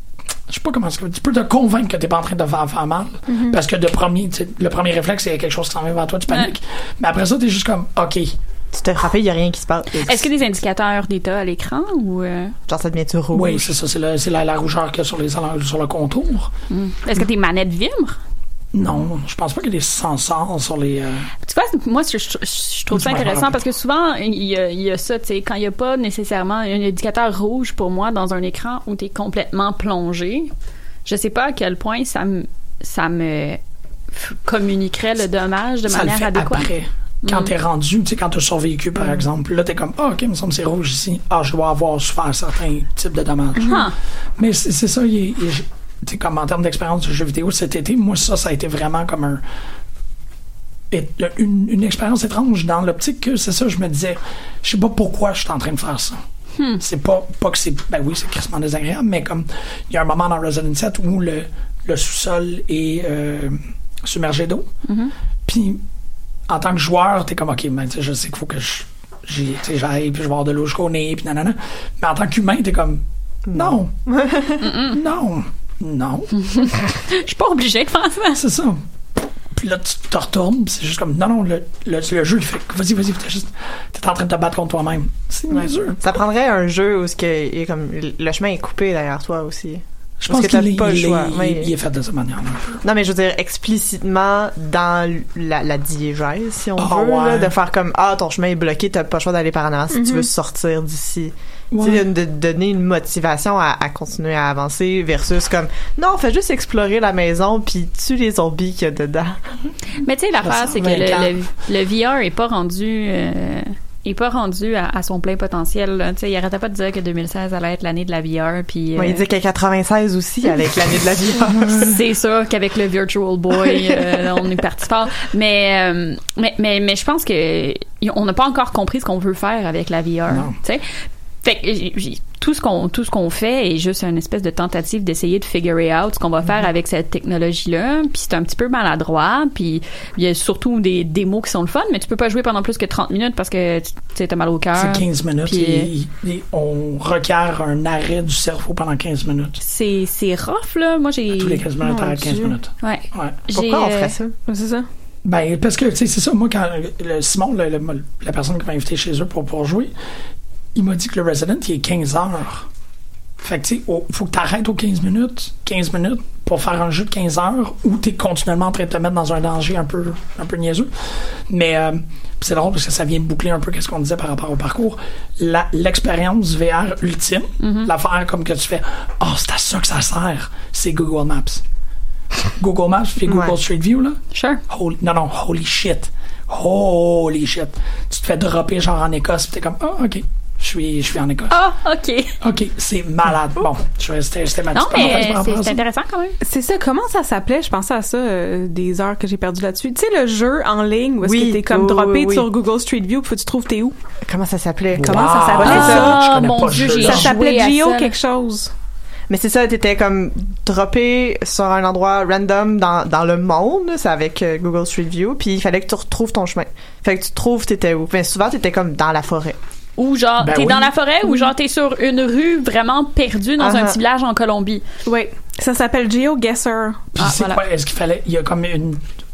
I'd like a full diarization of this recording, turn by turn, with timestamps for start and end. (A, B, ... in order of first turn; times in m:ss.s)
0:00.5-0:08.4 A
0:03.3-0:03.6 B
0:08.7-0:10.1 C
0:10.0-0:12.6 D
0:12.7-0:13.7 C
0:13.3-0:16.5 A
0:16.7-0:18.2 D
0:18.7-0:21.3 A
0:21.4-0:30.5 D
0:22.9-0:23.6 A
0:31.0-0:33.6 D
0:34.1-0:36.7 D
0:35.9-0:49.4 A
0:37.2-0:37.5 D
0:43.6-0:43.9 D
0:50.9-0:56.2 A
0:56.8-1:04.7 A
1:04.9-1:05.1 D
1:05.5-1:05.8 A
1:06.5-1:13.9 A
1:13.5-1:14.6 C
1:14.6-1:15.0 D
1:14.9-1:16.3 A
1:16.4-1:18.4 D
1:18.4-1:18.8 A
1:19.6-1:26.0 A
1:26.0-1:31.7 C
1:30.2-1:32.8 A
1:32.8-1:49.4 C
1:36.8-1:37.5 A
1:39.9-1:40.3 B
1:41.7-1:42.1 A
1:50.0-1:59.2 D
1:50.4-1:51.3 A
1:59.0-2:02.0 C
2:01.4-2:01.9 A
2:01.8-2:10.8 D
2:10.3-2:10.5 A
2:11.4-2:25.9 D
2:24.8-2:29.6 A
2:29.6-2:31.6 D
2:31.4-2:33.4 A
2:31.8-2:32.6 B
2:32.8-2:34.2 D
2:33.5-2:34.4 C
2:34.5-2:34.9 B
2:35.2-2:39.9 A
2:40.8-2:42.7 A
2:43.4-3:01.6 A
2:57.6-2:57.9 D
3:02.6-3:11.5 A
3:03.3-3:03.6 C
3:04.3-3:04.6 D
3:11.5-3:12.4 D
3:12.4-3:15.8 A
3:14.7-3:16.4 D
3:16.4-3:24.0 B
3:21.2-3:22.5 C
3:24.2-3:26.0 C
3:25.0-3:27.4 A
3:25.1-3:26.2 B
3:25.6-3:28.1 D
3:27.0-3:28.7 B
3:29.3-3:39.6 C
3:40.0-3:44.8 D
3:40.4-3:40.9 A
3:43.6-3:44.0 C
3:45.1-3:47.1 B
3:47.2-3:49.0 A
3:47.2-3:47.6 D